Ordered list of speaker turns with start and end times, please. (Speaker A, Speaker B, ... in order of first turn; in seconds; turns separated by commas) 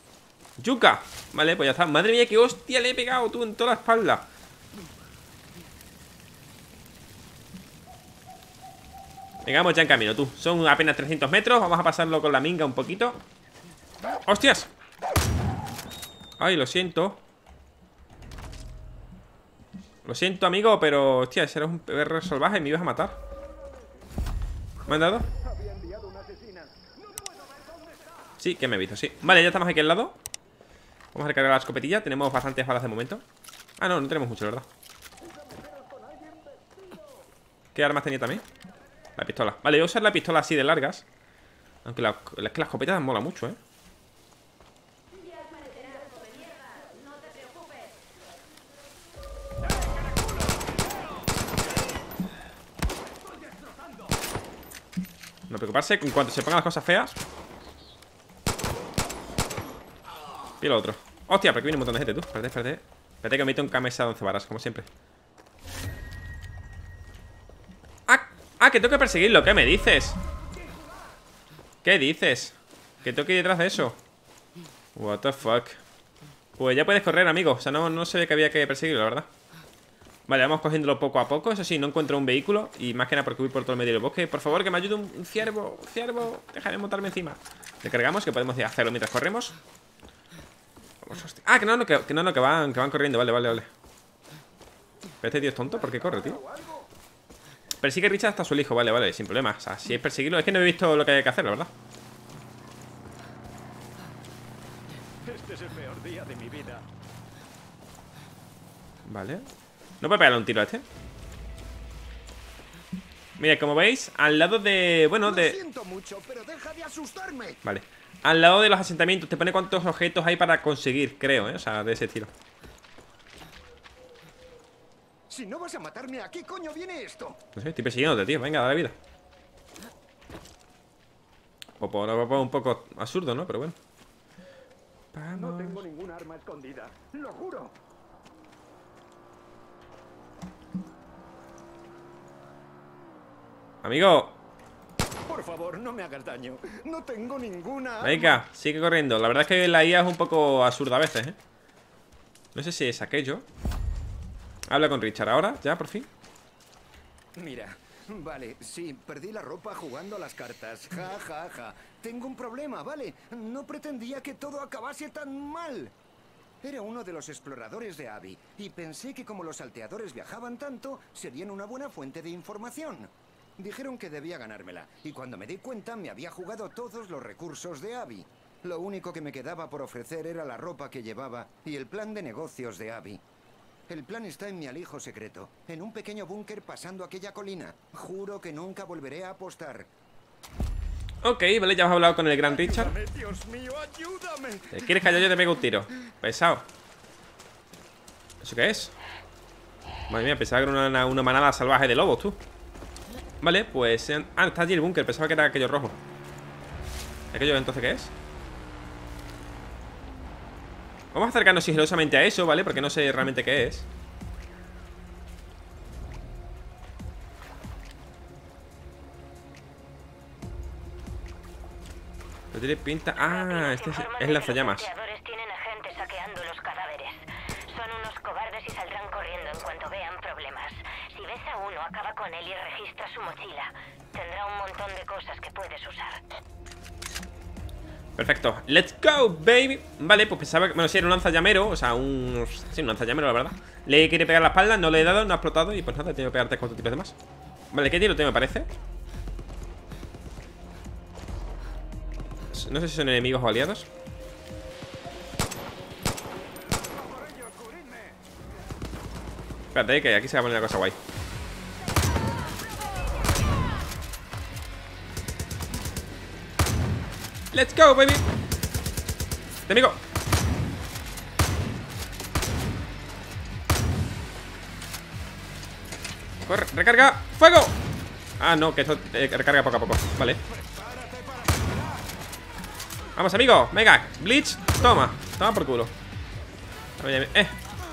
Speaker A: 0.6-4.3, Speaker A: 9.4-13.2, Speaker A: 14.2-14.7, Speaker A: 16.4-17.2, Speaker A: 20.0-23.2, Speaker A: 24.9-25.3, Speaker B: 24.9-26.9, Speaker A: 28.4-30.2, Speaker A: 31.1-33.2, Speaker A: 33.8-34.7, Speaker B: 35.4-36.7, Speaker A: 37.7-38.4, Speaker A: 39.1-41.0, Speaker A: 41.9-43.6, Speaker A: 55.5-57.2, Speaker A: 60.6-64.9, Speaker A: 68.1-70.2, Speaker A: 71.8-74.0, Speaker A: 75.0-75.8, Speaker A: 76.6-79.3, Speaker A: 80.3-89.5, Speaker A: 91.0-93.7, Speaker A: 95.2-96.4, Speaker B: 95.6-96.9, Speaker A: 97.8-101.7, Speaker B: 105.2-106.8, Speaker A: 109.1-109.5, Speaker A: 110.0-110.8, Speaker A: 113.4-115.6, Speaker B: 115.2-117.6, Speaker A: 117.6-122.3, Speaker B: 125.3-127.4, Speaker A: 127.5-128.9, Speaker A: 131.8-133.7, Speaker A: 135.1-135.8, Speaker B: 135.3-137.7, Speaker A: 143.8-144.4, Speaker B: 145.2-148.4, Speaker A: 148.0-151.4, Speaker A: 152.5-153.4, Speaker A: 154.7-156.1, Speaker B: 157.4-165.9, Speaker B: 166.6-183.2, Speaker B: 183.9-189.9, Speaker A: 191.2-192.9, Speaker B: 192.4-194.7, Speaker A: 194.7-196.7, Speaker A: 198.4-198.9, Speaker A: 200.1-202.4, Speaker A: 203.4-206.0, Speaker A: 207.3-208.1, Speaker A: 211.1-213.9, Speaker A: 222.5-224.9, Speaker C: 223.1-236.2, Speaker A: 238.2-247.2, Speaker A: 247.7-248.7, Speaker A: 252.5-253.9, Speaker B: 256.7-258.1, Speaker A: 259.7-261.0, Speaker A: 267.5-268.2, Speaker A: 269.7-270.0, Speaker A: 276.4-277.7, Speaker A: 278.4-280.4, Speaker B: 280.6-282.0, Speaker A: 283.1-285.9, Speaker A: 287.0-287.6